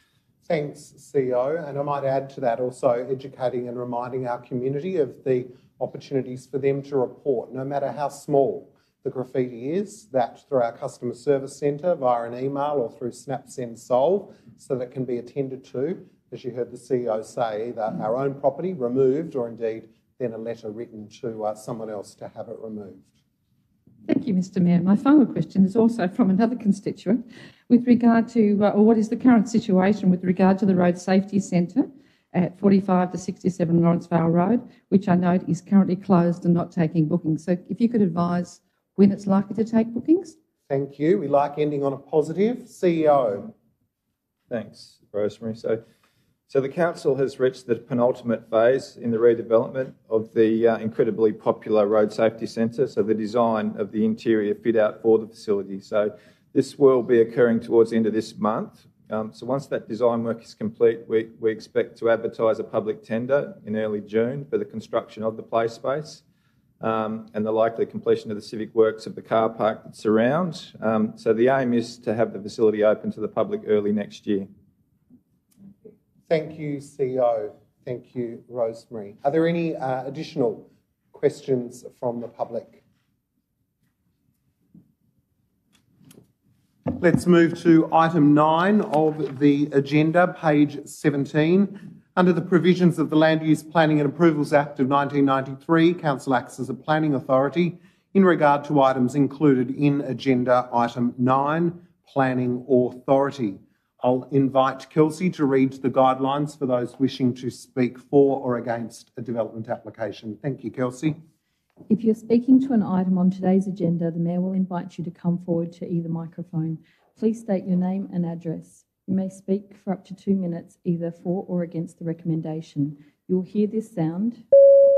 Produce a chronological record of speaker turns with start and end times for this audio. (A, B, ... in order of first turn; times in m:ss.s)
0:00.4-0:23.1 A
0:24.0-0:40.4 B
0:40.7-0:43.5 A
0:44.5-0:45.8 C
0:46.5-1:06.2 C
1:06.8-1:14.5 C
1:16.3-1:22.8 A
1:26.9-1:51.2 A
1:51.9-2:04.4 D